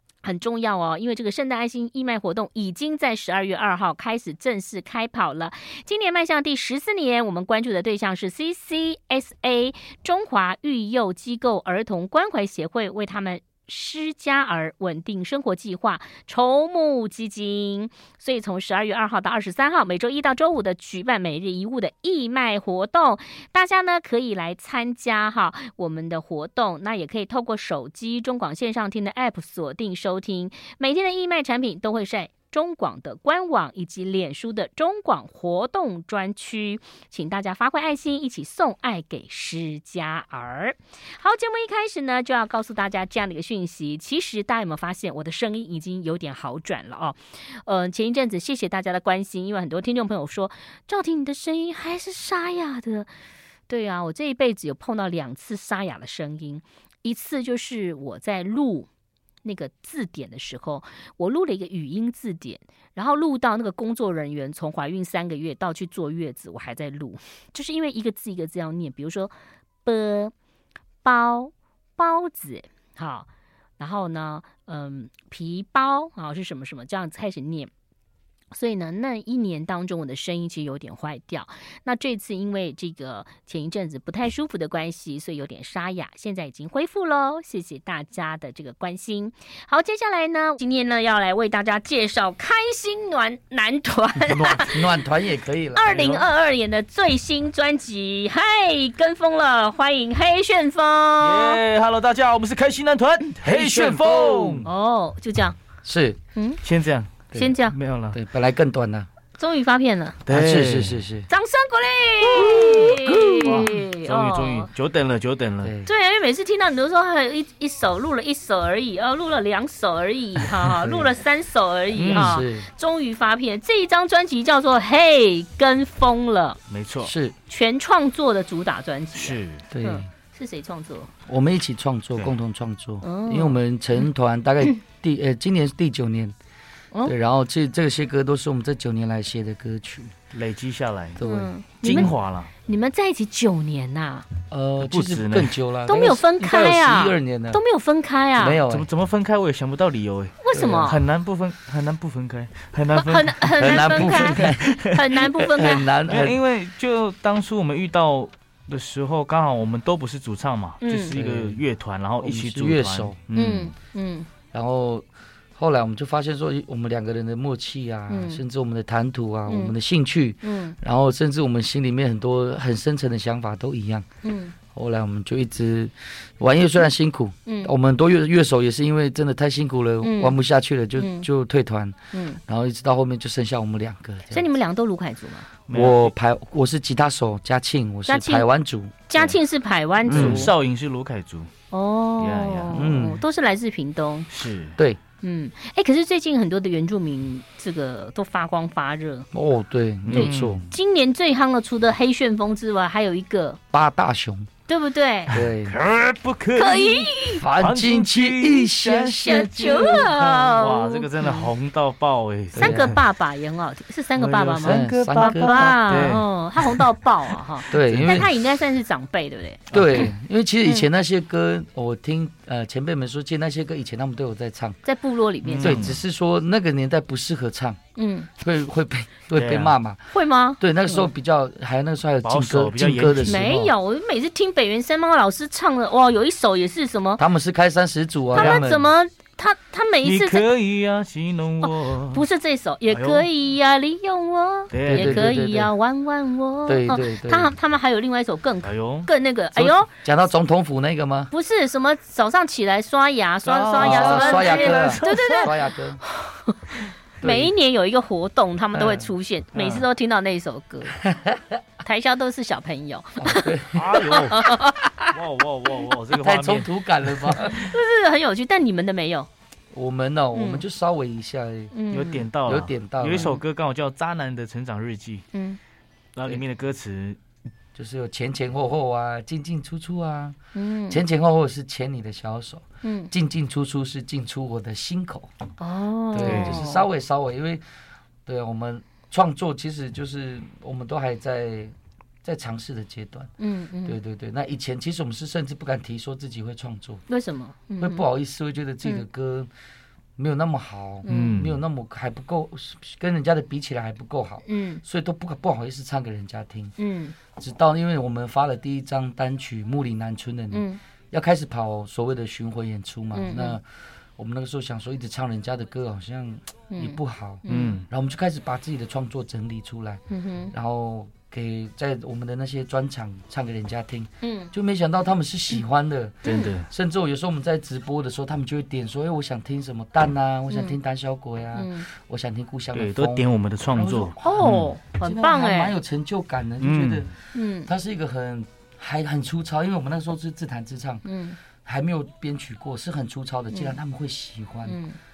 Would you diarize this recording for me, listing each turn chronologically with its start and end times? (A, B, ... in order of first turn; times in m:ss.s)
0:00.2-0:53.1 A
0:53.7-0:58.9 A
0:59.4-1:09.3 A
1:09.8-1:10.3 A
1:11.0-1:13.3 A
1:13.8-1:17.7 A
1:18.5-1:34.9 A
1:34.3-1:36.3 B
1:35.7-1:41.6 A
1:41.2-1:44.7 C
1:43.4-1:44.7 B
1:44.6-1:45.6 A
1:45.8-1:46.2 B
1:46.4-1:46.6 A
1:46.6-1:48.2 C
1:47.3-1:47.8 A
1:48.1-1:49.1 B
1:49.4-1:50.2 A
1:50.3-1:51.0 C
1:50.3-1:51.3 B
1:51.3-1:54.7 A
1:52.3-1:53.8 B
1:53.4-1:55.7 C
1:55.6-1:55.9 B
1:55.8-2:06.6 A
2:00.8-2:01.1 B
2:01.9-2:02.7 B
2:02.1-2:02.4 C
2:06.7-2:07.1 C
2:07.0-2:07.4 B
2:07.5-2:11.1 A
2:09.2-2:09.6 C
2:09.7-2:10.1 B
2:11.3-2:16.4 B
2:13.0-2:13.6 A
2:17.1-2:20.2 B
2:20.3-2:21.2 C
2:21.2-2:22.1 B
2:21.2-2:22.1 A
2:21.8-2:22.5 C
2:22.6-2:24.3 A
2:24.5-2:27.6 B
2:24.8-2:25.6 C
2:25.9-2:28.6 A
2:28.4-2:28.9 B
2:28.7-2:35.4 C
2:30.4-2:31.0 A
2:30.5-2:30.9 B
2:33.0-2:35.9 A
2:33.6-2:34.8 B
2:35.4-2:36.4 B
2:36.0-2:43.7 C
2:40.8-2:41.1 A
2:41.1-2:41.6 B
2:42.2-2:43.2 B
2:43.3-2:44.3 A
2:44.5-2:54.1 B
2:48.1-2:48.4 A
2:49.5-2:49.7 A
2:50.4-2:50.8 A
2:54.2-2:54.6 A
2:54.7-3:04.5 B
2:57.5-2:57.7 A
3:00.0-3:00.4 A
3:01.0-3:01.3 A
3:02.1-3:02.4 A
3:04.3-3:05.5 A
3:05.7-3:06.1 C
3:05.7-3:09.0 B
3:08.1-3:08.5 A
3:09.1-3:10.5 A
3:10.1-3:10.5 B
3:10.1-3:11.5 C
3:11.7-3:14.3 A
3:12.2-3:12.9 C
3:12.7-3:13.2 B
3:14.3-3:14.8 C
3:15.2-3:19.3 A
3:19.3-3:20.7 B
3:20.1-3:20.6 C
3:20.1-3:23.6 A
3:23.7-3:24.5 B
3:24.7-3:25.4 A
3:25.3-3:25.8 B
3:25.4-3:33.0 C
3:26.5-3:27.4 A
3:27.4-3:30.1 B
3:29.3-3:31.5 A
3:32.6-3:32.9 B
3:32.6-3:40.1 A
3:34.2-3:36.8 C
3:34.6-3:36.1 B
3:37.7-3:38.3 C
3:37.7-3:38.3 B
3:39.7-3:40.1 C
3:39.7-3:44.8 B
3:44.9-3:45.8 A
3:45.4-3:46.0 C
3:45.6-3:47.8 B
3:48.0-3:48.3 A
3:48.4-3:53.7 B
3:49.3-3:49.7 C
3:50.1-3:51.1 A
3:52.2-3:53.4 C
3:53.3-3:57.2 A
3:57.2-3:58.9 B
3:58.3-4:00.4 A
3:58.4-3:58.7 C
4:00.0-4:02.2 C
4:01.6-4:09.9 A
4:02.9-4:03.3 C
4:04.7-4:05.3 C
4:04.9-4:05.7 B
4:06.7-4:07.5 B
4:08.6-4:09.1 C
4:09.6-4:11.3 B
4:11.3-4:15.5 A
4:13.4-4:15.5 C
4:13.8-4:16.0 B
4:16.3-4:21.0 A
4:17.2-4:17.5 B
4:18.8-4:19.1 B
4:19.6-4:19.9 C
4:21.1-4:21.4 B
4:21.8-4:23.5 A
4:23.2-4:24.0 B
4:23.7-4:24.4 C
4:24.0-4:24.9 A
4:25.0-4:27.4 C
4:26.1-4:27.7 B
4:27.5-4:29.3 A
4:29.7-4:31.7 B
4:30.3-4:30.6 A
4:31.7-4:32.3 A
4:31.9-4:35.3 C
4:32.4-4:33.4 B
4:33.1-4:33.4 A
4:35.3-4:35.6 A
4:36.2-4:37.2 C
4:37.8-4:40.4 B
4:40.6-4:41.0 A
4:40.9-4:45.3 B
4:42.8-4:43.1 A
4:45.6-4:46.8 A
4:46.1-4:47.6 B
4:46.2-4:46.6 C
4:48.3-4:53.3 B
4:53.4-4:54.0 A
4:53.8-4:57.0 B
4:57.1-4:58.0 A
4:57.8-4:59.5 B
5:00.2-5:06.8 B
5:01.0-5:01.4 A
5:01.1-5:01.6 C
5:04.4-5:04.8 A
5:06.8-5:07.2 A
5:07.4-5:13.6 B
5:10.5-5:10.8 A
5:13.1-5:13.6 A
5:14.2-5:41.1 B
5:16.7-5:17.8 A
5:17.5-5:17.9 C
5:20.1-5:20.5 A
5:24.2-5:24.5 A
5:26.2-5:26.7 C
5:26.2-5:26.5 A
5:30.5-5:30.8 A
5:31.6-5:31.9 A
5:32.7-5:34.7 C
5:34.2-5:35.8 A
5:36.6-5:37.1 C
5:37.3-5:37.7 A
5:41.0-5:41.4 A
5:41.6-5:44.8 B
5:43.5-5:43.8 A
5:44.6-5:45.0 A